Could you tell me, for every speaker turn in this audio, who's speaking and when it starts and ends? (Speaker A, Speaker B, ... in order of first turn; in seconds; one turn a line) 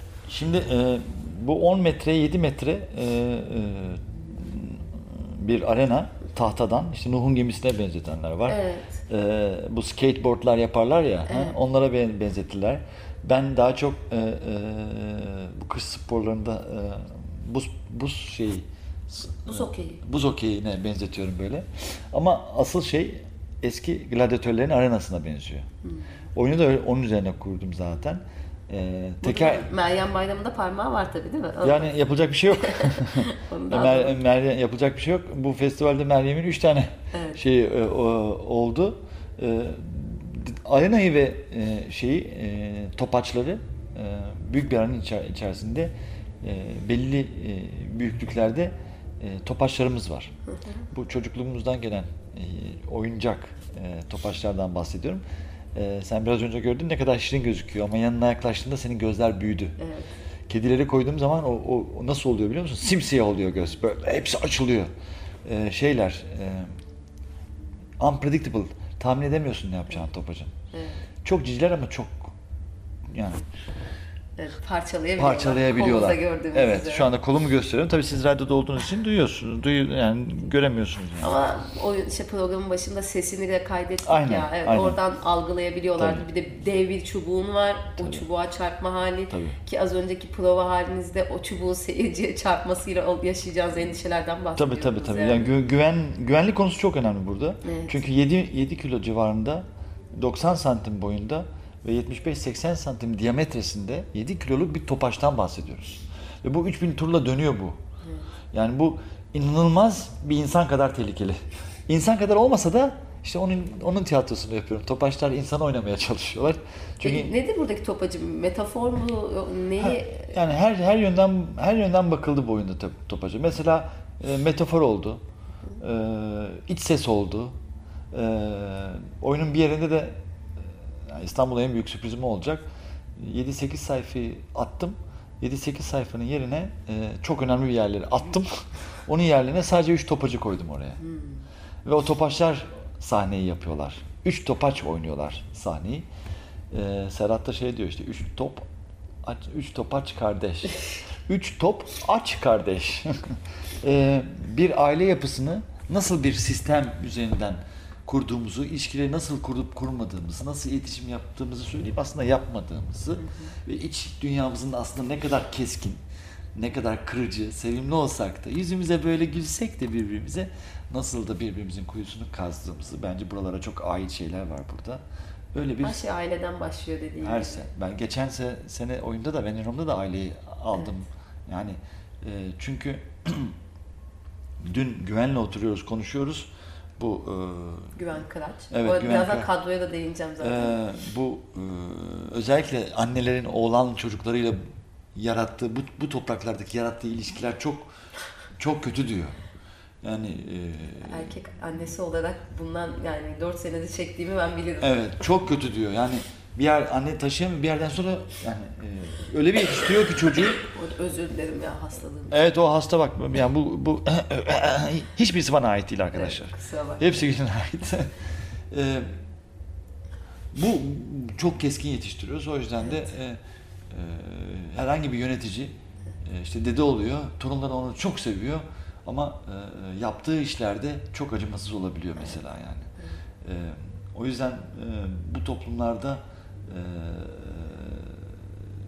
Speaker A: 0.3-25.7
Speaker B: 8.5-9.0
Speaker B: 11.3-11.6
Speaker B: 19.5-20.0
Speaker A: 26.4-29.7
Speaker B: 29.2-31.9
Speaker A: 31.6-50.3
Speaker B: 32.6-34.2
Speaker B: 37.1-37.4
Speaker B: 50.5-50.8
Speaker A: 50.9-55.2
Speaker A: 55.7-59.8
Speaker B: 59.8-60.1
Speaker A: 60.5-64.9
Speaker A: 65.4-66.7
Speaker A: 68.0-70.5
Speaker B: 70.7-71.0
Speaker A: 71.2-72.4
Speaker A: 73.1-73.5
Speaker B: 74.4-77.1
Speaker A: 75.2-81.4
Speaker B: 81.2-95.5
Speaker A: 84.1-85.0
Speaker A: 86.0-86.2
Speaker A: 88.0-88.3
Speaker A: 89.3-89.6
Speaker A: 94.5-107.8
Speaker B: 97.6-98.0
Speaker B: 108.0-108.3
Speaker A: 108.5-117.3
Speaker B: 117.0-120.4
Speaker A: 119.8-125.2
Speaker A: 125.8-127.6
Speaker A: 128.1-141.0
Speaker B: 141.0-141.4
Speaker A: 141.8-146.1
Speaker A: 146.7-148.7
Speaker A: 149.2-166.0
Speaker B: 163.2-163.5
Speaker A: 166.6-176.0
Speaker B: 175.8-177.7
Speaker A: 177.2-183.6
Speaker A: 184.6-188.0
Speaker B: 188.0-190.8
Speaker A: 188.7-189.5
Speaker A: 190.4-197.9
Speaker A: 198.6-199.4
Speaker A: 200.0-201.3
Speaker B: 201.1-205.0
Speaker A: 204.8-210.7
Speaker B: 210.7-212.4
Speaker A: 212.3-218.2
Speaker B: 216.1-217.2
Speaker A: 218.7-219.2
Speaker A: 220.5-238.7